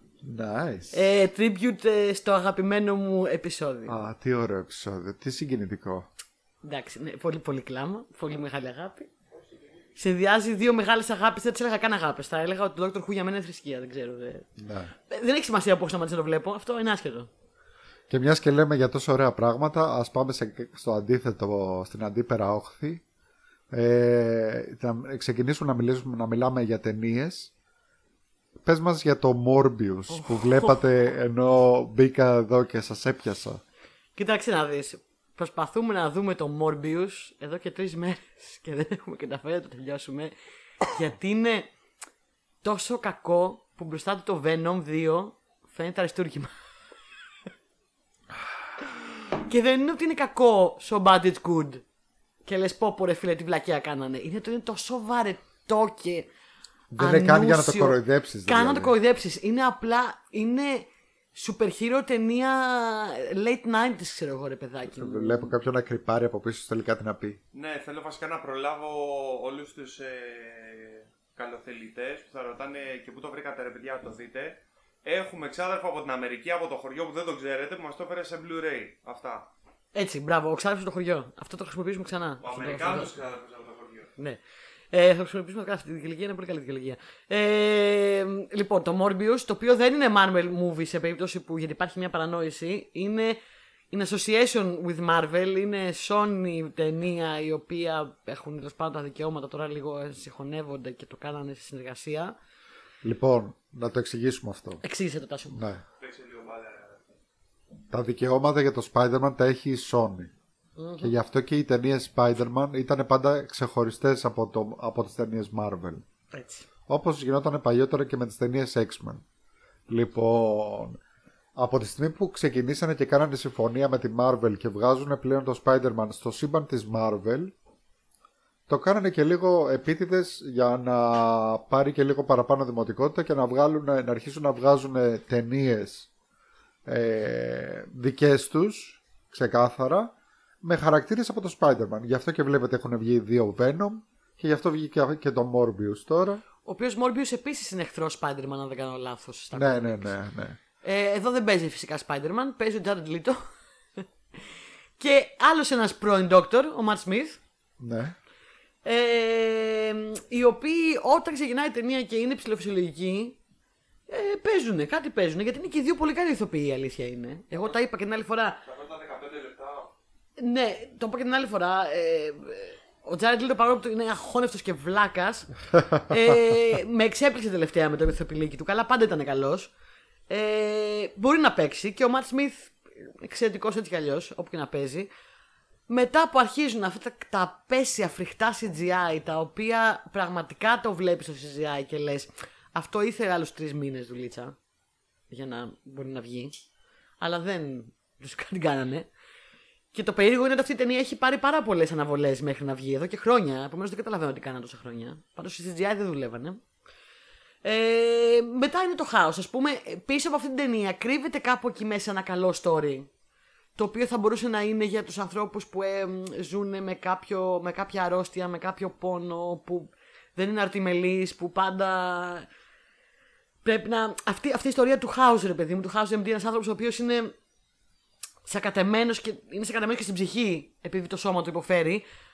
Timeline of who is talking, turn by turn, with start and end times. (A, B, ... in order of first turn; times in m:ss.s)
0:00.2-0:01.0 A
0:00.9-0:04.0 B
0:03.9-0:06.1 A
0:06.6-0:09.1 B
0:10.0-0:14.5 B
0:14.6-0:14.9 A
0:15.0-0:17.3 B
0:18.1-0:23.0 A
0:23.7-0:27.5 A
0:28.6-0:33.6 A
0:30.1-0:30.8 B
0:34.2-0:40.3 B
0:40.8-0:41.7 B
0:42.6-0:46.5 B
0:49.4-0:51.8 B
0:52.4-0:56.3 B
0:56.9-0:58.9 A
0:57.0-1:05.5 B
1:04.9-1:07.4 A
1:07.5-1:19.5 C
1:19.9-1:23.1 B
1:22.4-1:24.1 C
1:24.9-1:33.4 B
1:33.9-1:42.3 B
1:43.0-1:44.8 A
1:44.8-1:45.6 B
1:45.5-1:45.8 A
1:46.0-1:47.0 C
1:47.9-1:50.3 A
1:50.8-1:51.1 B
1:51.0-1:56.0 A
1:56.3-1:56.6 B
1:56.9-1:59.2 A
1:59.9-2:01.0 A
2:01.6-2:07.5 A
2:08.7-2:16.1 A
2:16.8-2:26.4 A
2:26.6-2:30.2 B
2:29.5-2:30.6 A
2:30.8-2:33.4 B
2:34.0-2:34.4 B
2:35.0-2:37.4 B
2:37.8-2:38.2 A
2:38.8-2:43.4 B
2:44.1-2:48.6 B
2:48.6-2:49.9 C
2:50.4-2:59.7 B
3:00.3-3:05.1 B
3:05.9-3:14.6 B
3:15.3-3:16.6 B
3:17.2-3:19.1 B
3:19.9-3:26.6 B
3:27.6-3:33.1 B
3:33.8-3:42.5 B
3:43.6-3:47.3 B
3:48.4-3:52.0 B